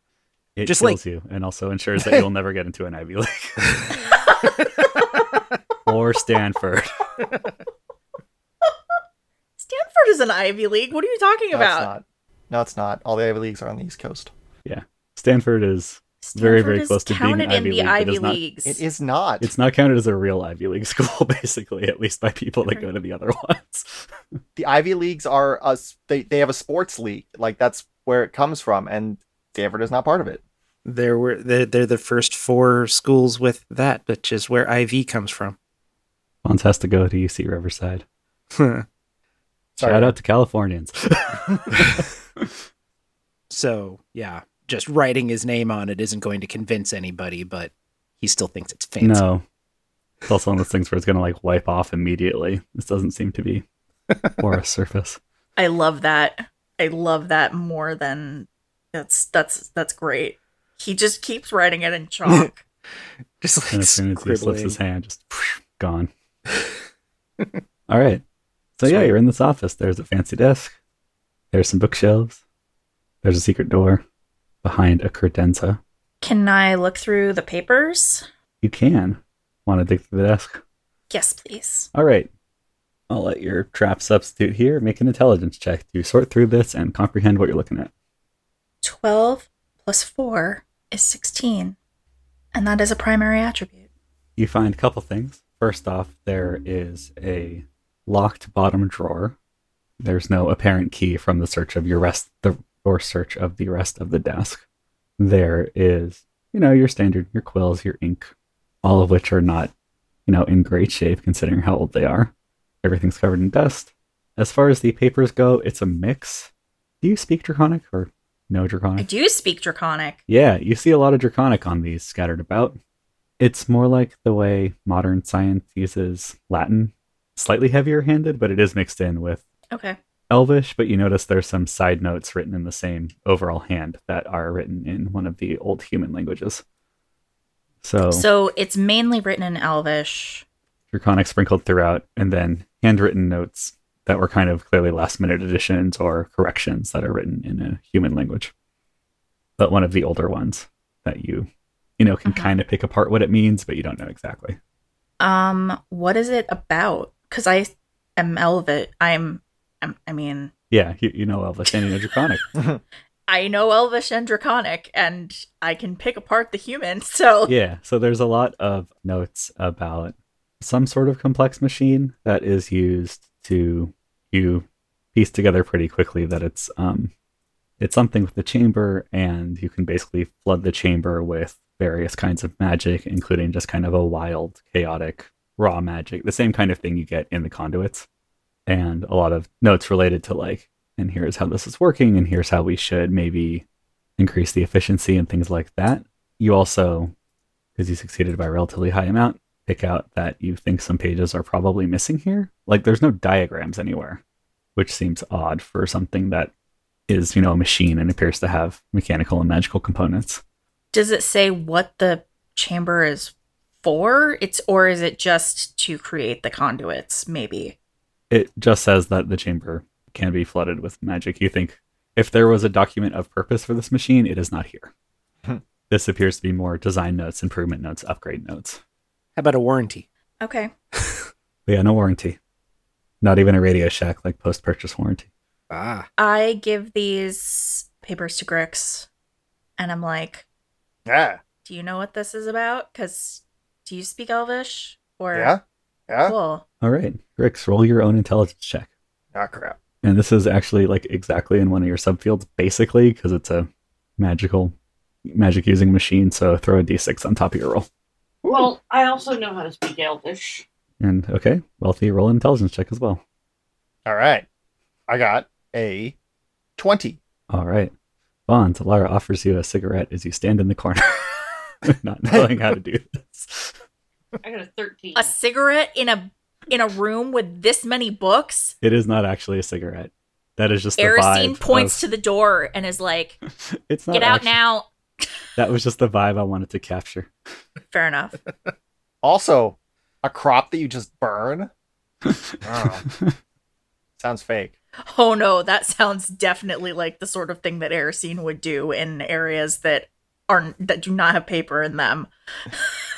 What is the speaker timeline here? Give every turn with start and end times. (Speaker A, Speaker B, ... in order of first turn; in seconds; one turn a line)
Speaker A: 0.6-4.1
Speaker B: 0.6-1.0
Speaker C: 4.3-4.6
Speaker A: 5.8-7.2
Speaker C: 9.6-11.9
Speaker D: 11.5-14.3
Speaker A: 14.6-18.4
Speaker C: 16.2-18.8
Speaker D: 18.6-19.5
Speaker A: 19.4-24.1
Speaker D: 24.6-30.4
Speaker B: 30.9-35.5
Speaker A: 36.4-38.0
Speaker B: 38.5-38.8
Speaker D: 39.8-40.1
Speaker A: 39.8-42.5
Speaker B: 43.5-49.2
Speaker A: 49.0-49.4
Speaker A: 50.3-53.6
Speaker A: 54.4-55.2
Speaker C: 55.6-62.6
Speaker B: 63.4-64.8
Speaker A: 63.7-66.1
Speaker A: 67.9-68.2
Speaker A: 68.8-70.7
Speaker B: 68.9-69.1
Speaker A: 71.5-72.4
Speaker A: 73.2-74.0
Speaker A: 74.6-75.8
Speaker C: 76.2-78.2
Speaker A: 78.6-80.6
Speaker C: 81.1-81.9
Speaker A: 81.9-82.3
Speaker A: 83.1-87.9
Speaker C: 88.8-91.8
Speaker C: 92.5-93.8
Speaker A: 94.4-99.3
Speaker A: 100.0-104.6
Speaker A: 105.2-108.3
Speaker A: 108.8-109.7
Speaker A: 110.3-112.3
Speaker A: 112.8-116.5
Speaker A: 117.0-119.1
Speaker C: 119.0-120.2
Speaker A: 120.3-122.8
Speaker A: 123.4-129.4
Speaker C: 129.7-130.0
Speaker A: 130.3-136.6
Speaker A: 137.8-138.2
Speaker C: 138.1-140.4
Speaker A: 140.9-148.5
Speaker A: 149.6-154.6
Speaker C: 152.2-152.5
Speaker C: 155.2-160.5
Speaker A: 160.7-162.4
Speaker D: 162.5-162.8
Speaker C: 163.3-167.5
Speaker A: 167.5-177.1
Speaker A: 177.8-188.1
Speaker A: 188.7-193.6
Speaker A: 194.2-197.1
Speaker A: 197.8-204.2
Speaker A: 204.8-206.5
Speaker A: 207.1-210.4
Speaker C: 210.9-217.8
Speaker A: 218.3-224.9
Speaker A: 225.9-228.8
Speaker B: 229.3-230.1
Speaker C: 230.4-230.7
Speaker A: 231.7-232.4
Speaker A: 233.2-235.3
Speaker B: 235.7-236.1
Speaker C: 236.2-239.1
Speaker C: 239.8-240.4
Speaker D: 241.1-241.4
Speaker C: 241.6-245.5
Speaker D: 245.3-246.3
Speaker C: 246.2-246.6
Speaker A: 246.8-248.9
Speaker D: 249.3-249.8
Speaker A: 250.0-254.7
Speaker A: 255.2-257.9
Speaker D: 258.4-258.7
Speaker E: 258.5-260.6
Speaker A: 261.0-263.2
Speaker D: 264.1-264.4
Speaker D: 265.1-266.1
Speaker D: 266.8-267.2
Speaker A: 267.5-267.9
Speaker A: 268.5-273.7
Speaker E: 274.4-275.3
Speaker C: 275.1-278.8
Speaker A: 278.8-282.0
Speaker C: 281.0-283.4
Speaker A: 283.9-284.6
Speaker C: 284.1-284.9
Speaker A: 285.6-287.3
Speaker C: 287.9-288.4
Speaker D: 289.2-291.7
Speaker D: 292.6-293.0
Speaker D: 294.2-294.7
Speaker C: 295.1-302.8